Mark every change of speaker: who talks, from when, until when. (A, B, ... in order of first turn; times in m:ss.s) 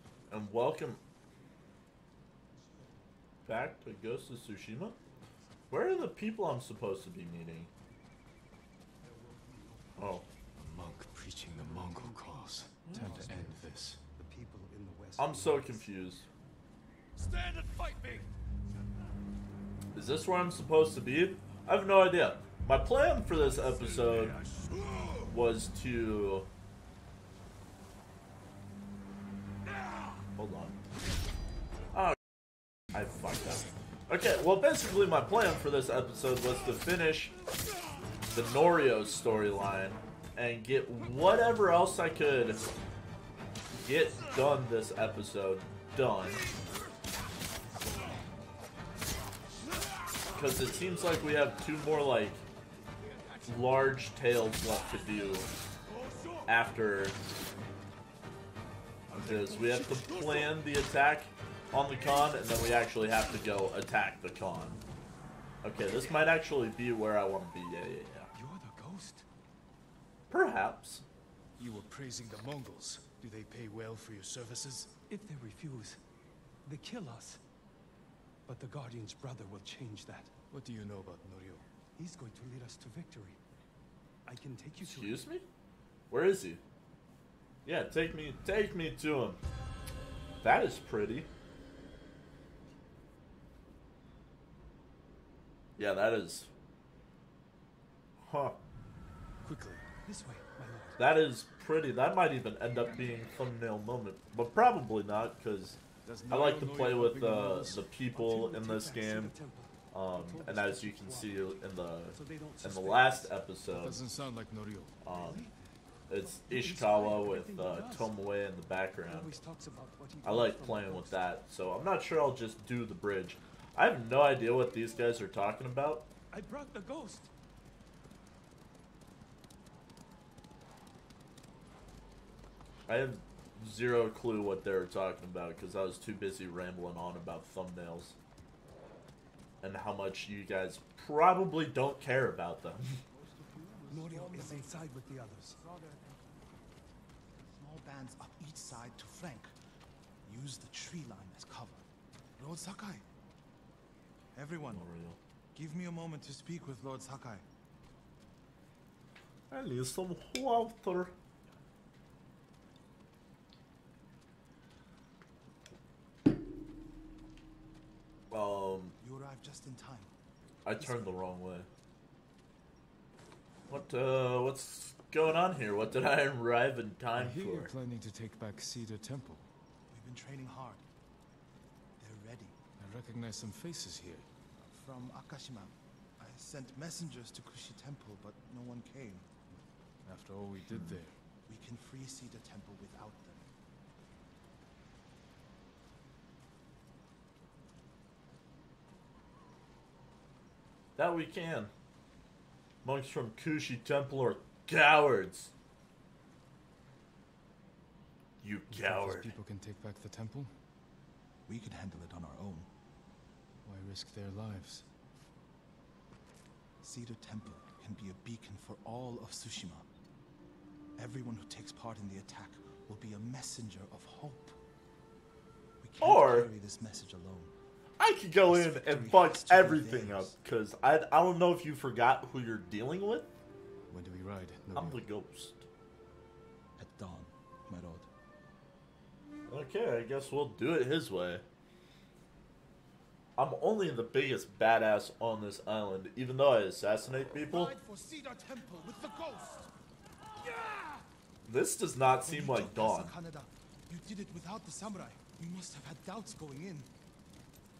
0:00.3-0:01.0 A
0:03.4-0:05.0 A
0:05.7-0:07.7 A
0:09.5-0:09.8 B
0:10.0-0:10.2 A
0:10.6-0:14.0 C
0:11.5-0:13.6 B
0:12.8-0:13.3 A
0:14.2-0:15.8 B
0:15.2-0:16.2 A
0:17.2-0:18.3 B
0:19.9-0:24.4 A
0:24.6-0:25.0 B
0:25.2-0:26.5 A
0:30.3-0:30.8 A
0:31.9-0:32.2 A
0:32.9-0:37.3 A
0:38.3-0:42.7 A
0:43.8-0:46.4 A
0:50.3-0:52.4 A
0:53.4-0:55.5 A
0:56.5-0:57.2 A
0:59.1-1:04.8 A
1:05.6-1:08.3 A
1:08.3-1:09.2 B
1:10.3-1:11.0 A
1:11.6-1:15.0 C
1:15.1-1:16.0 B
1:16.6-1:17.4 B
1:18.4-1:20.3 B
1:20.5-1:21.6 C
1:22.0-1:23.4 B
1:24.2-1:25.2 B
1:24.8-1:25.4 A
1:26.1-1:26.6 A
1:27.6-1:29.4 A
1:30.4-1:31.3 A
1:35.8-1:36.5 A
1:38.2-1:38.6 A
1:39.4-1:39.8 C
1:40.0-1:41.0 D
1:41.0-1:49.3 A
1:46.0-1:47.9 C
1:48.1-1:53.3 B
1:49.9-1:54.0 A
1:53.7-1:55.0 C
1:55.0-1:55.5 A
1:55.1-1:55.5 B
1:56.1-1:59.4 A
1:56.2-1:58.1 B
1:59.0-2:01.2 B
2:00.2-2:06.1 A
2:06.3-2:07.3 B
2:12.9-2:18.2 A
2:19.6-2:23.0 A
2:23.1-2:24.9 D
2:23.9-2:25.7 B
2:27.5-2:29.5 D
2:30.2-2:31.8 D
2:32.4-2:33.0 D
2:34.3-2:34.8 D
2:34.7-2:35.2 A
2:35.5-2:37.4 D
2:39.5-2:41.1 A
2:48.3-2:49.0 A
2:49.0-2:50.1 D
2:50.6-2:51.7 A
2:50.8-2:51.2 D
2:53.7-2:57.7 A
2:57.1-2:59.5 C
2:59.9-3:00.8 D
3:02.0-3:02.6 D
3:02.8-3:04.3 C
3:04.6-3:09.3 D
3:10.0-3:11.1 C
3:10.7-3:13.5 D
3:21.0-3:21.7 A
3:22.8-3:25.5 A
3:28.4-3:29.3 A
3:28.7-3:30.5 C
3:31.4-3:32.7 D
3:33.6-3:34.8 C
3:36.8-3:39.9 D
3:41.0-3:44.6 D
3:45.8-3:47.5 D
3:46.0-3:46.5 A
3:48.0-3:53.3 A
3:48.4-3:50.3 D
3:53.9-3:55.0 C
3:54.7-3:55.6 A
3:56.8-3:58.1 D
3:59.5-4:01.4 A
4:03.4-4:07.7 A
4:07.4-4:09.7 D
4:11.4-4:13.1 A
4:12.2-4:16.9 D